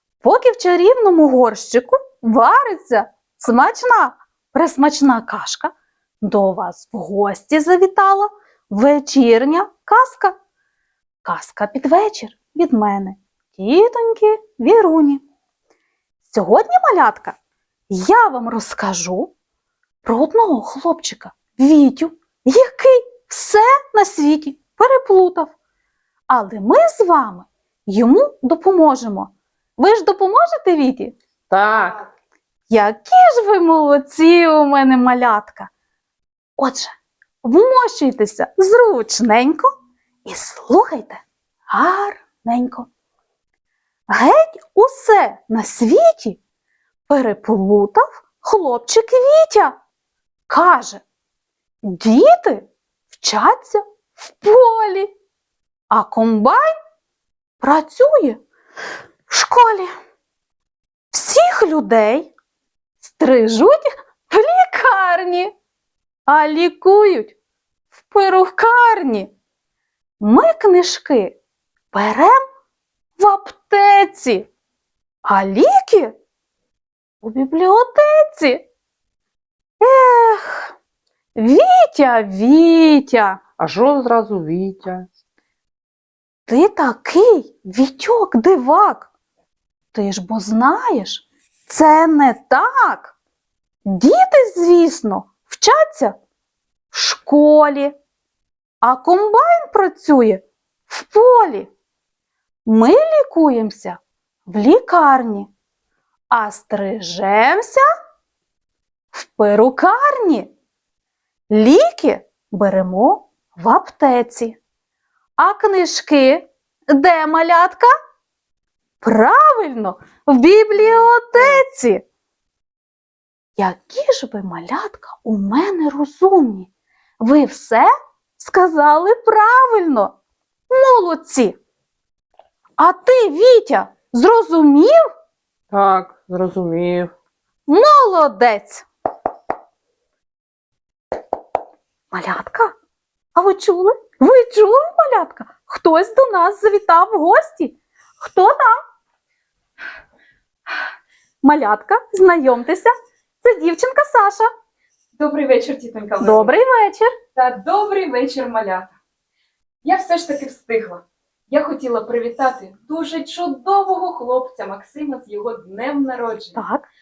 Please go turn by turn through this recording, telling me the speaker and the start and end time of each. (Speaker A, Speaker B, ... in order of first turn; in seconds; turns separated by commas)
Speaker A: 0.2-10.3, Speaker A: 11.2-15.2, Speaker A: 16.2-17.4, Speaker A: 17.9-19.3, Speaker A: 20.0-25.6, Speaker A: 26.3-31.2, Speaker B: 31.5-32.0, Speaker A: 32.7-35.7, Speaker A: 36.6-39.7, Speaker A: 40.2-42.9, Speaker A: 44.1-46.4, Speaker A: 47.1-49.8, Speaker A: 50.5-51.0, Speaker A: 51.8-55.1, Speaker A: 55.9-56.7, Speaker A: 57.6-58.4, Speaker A: 59.3-59.9, Speaker A: 61.1-62.3, Speaker A: 63.0-65.5, Speaker A: 66.3-67.4, Speaker A: 68.0-69.3, Speaker A: 70.2-71.4, Speaker A: 71.9-72.4, Speaker A: 73.2-74.5, Speaker A: 75.2-76.2, Speaker A: 77.2-78.7, Speaker A: 79.8-80.7, Speaker A: 81.4-83.4, Speaker B: 83.6-85.1, Speaker A: 86.5-89.1, Speaker A: 89.9-93.2, Speaker A: 93.9-96.2, Speaker A: 96.9-98.0, Speaker A: 98.8-101.7, Speaker A: 102.7-105.5, Speaker A: 106.3-107.8, Speaker A: 109.1-110.5, Speaker A: 111.5-114.6, Speaker A: 115.4-117.9, Speaker A: 119.0-122.0, Speaker A: 123.6-130.2, Speaker A: 130.7-131.6, Speaker A: 132.8-135.1, Speaker B: 135.7-137.1, Speaker A: 137.7-138.8, Speaker A: 142.1-142.7, Speaker A: 143.3-148.8, Speaker A: 151.4-154.5, Speaker C: 155.1-156.6, Speaker A: 156.2-157.1, Speaker C: 157.3-158.9, Speaker C: 159.8-166.6, Speaker A: 166.6-166.9